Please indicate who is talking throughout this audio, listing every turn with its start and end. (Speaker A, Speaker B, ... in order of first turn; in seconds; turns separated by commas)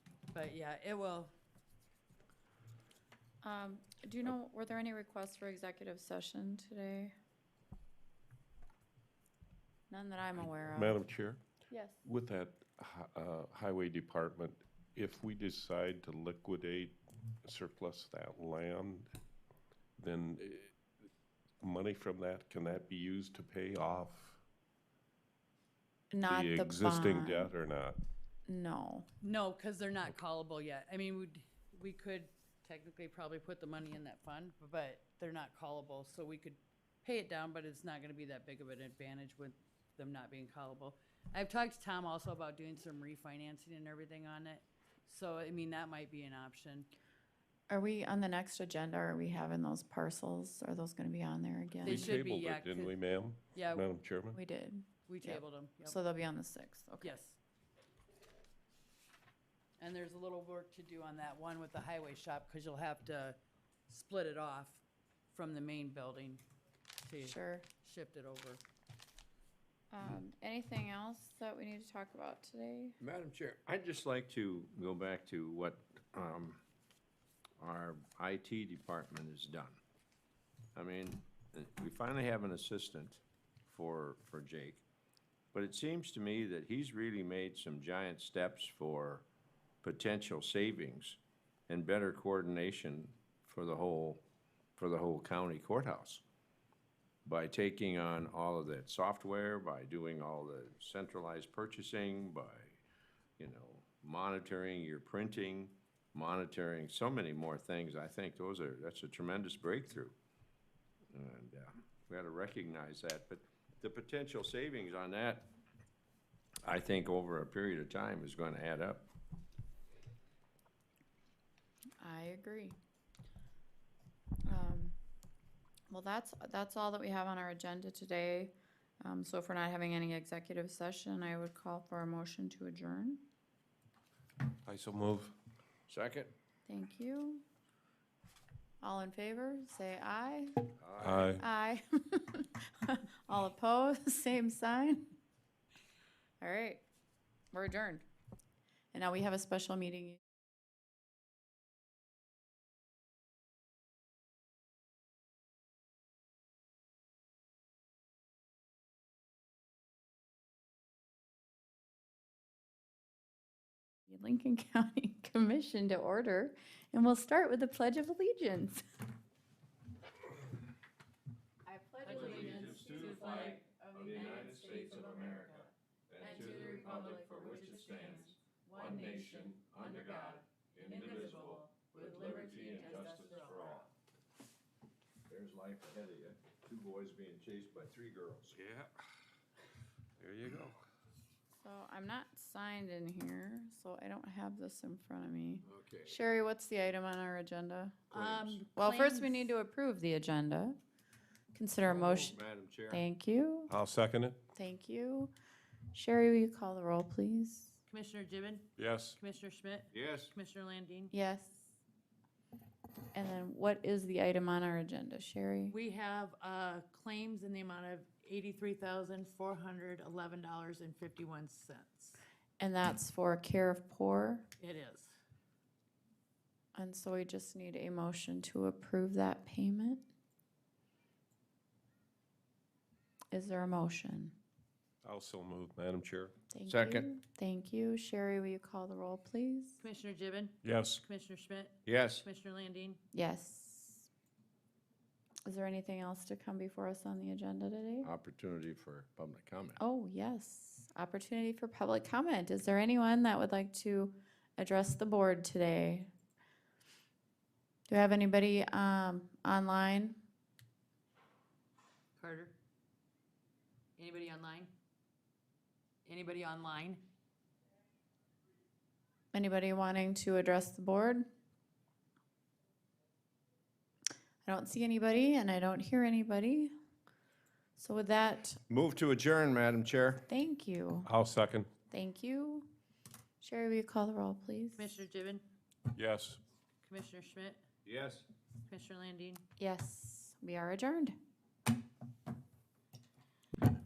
Speaker A: 0.3-1.3, Speaker B: 3.4-7.1, Speaker B: 9.9-11.0, Speaker C: 10.6-11.4, Speaker B: 11.7-12.0, Speaker C: 12.1-19.1, Speaker C: 20.0-20.8, Speaker C: 21.6-24.4, Speaker B: 26.1-27.5, Speaker C: 26.3-28.0, Speaker B: 28.5-29.1, Speaker A: 29.2-46.9, Speaker B: 47.7-52.1, Speaker A: 51.8-52.9, Speaker C: 51.8-54.4, Speaker A: 53.5-53.9, Speaker B: 54.3-57.1, Speaker A: 55.1-56.0, Speaker A: 57.0-57.4, Speaker A: 59.8-63.4, Speaker A: 63.9-66.4, Speaker A: 67.0-68.6, Speaker B: 67.2-67.7, Speaker B: 69.9-73.0, Speaker D: 73.0-76.6, Speaker D: 77.6-79.8, Speaker D: 80.8-84.8, Speaker D: 85.5-89.2, Speaker D: 89.8-94.2, Speaker D: 94.8-96.2, Speaker D: 97.3-102.8, Speaker D: 103.4-110.2, Speaker D: 111.1-115.5, Speaker D: 116.6-119.1, Speaker B: 122.0-122.8, Speaker B: 124.5-125.0, Speaker B: 125.9-133.2, Speaker C: 134.7-135.3, Speaker D: 135.9-136.3, Speaker B: 136.7-137.4, Speaker B: 138.8-140.6, Speaker D: 140.8-141.3, Speaker C: 141.0-141.4, Speaker B: 141.3-145.1, Speaker B: 146.4-146.8, Speaker B: 147.5-148.1, Speaker B: 148.9-150.2, Speaker B: 164.1-168.8, Speaker B: 171.7-175.2, Speaker A: 172.0-175.7, Speaker D: 172.0-183.9, Speaker A: 176.2-183.8, Speaker B: 176.2-177.7, Speaker D: 185.3-188.6, Speaker C: 188.5-188.9, Speaker C: 190.2-190.8, Speaker B: 191.5-198.0, Speaker D: 195.7-196.2, Speaker D: 198.1-198.6, Speaker A: 198.1-199.6, Speaker B: 198.7-200.8, Speaker B: 201.5-202.4, Speaker D: 201.8-203.0, Speaker B: 202.9-203.7, Speaker C: 203.7-204.4, Speaker B: 204.6-205.3, Speaker B: 205.9-207.8, Speaker A: 207.9-208.7, Speaker C: 208.8-209.2, Speaker A: 209.2-211.1, Speaker D: 209.9-210.3, Speaker B: 211.1-211.8, Speaker B: 213.2-215.8, Speaker A: 215.7-222.2, Speaker B: 222.6-224.4, Speaker A: 224.6-225.1, Speaker B: 226.8-230.1, Speaker B: 233.3-234.4, Speaker C: 235.0-236.3, Speaker B: 236.5-239.8, Speaker D: 236.7-237.1, Speaker A: 239.8-243.0, Speaker C: 240.6-241.0, Speaker D: 241.9-242.2, Speaker B: 243.1-244.1, Speaker B: 245.5-248.1, Speaker D: 248.0-249.8, Speaker B: 249.8-256.1, Speaker B: 257.9-260.2, Speaker A: 262.2-262.5, Speaker A: 264.0-264.7, Speaker A: 266.1-267.0, Speaker B: 269.3-271.3, Speaker B: 274.4-276.7, Speaker B: 277.8-278.6, Speaker D: 278.7-280.3, Speaker B: 280.3-281.1, Speaker C: 281.1-281.7, Speaker B: 281.9-282.7, Speaker B: 283.4-284.9, Speaker A: 284.8-285.4, Speaker C: 285.9-286.4, Speaker A: 286.8-287.6, Speaker D: 287.9-288.3, Speaker A: 288.7-289.4, Speaker B: 289.6-291.2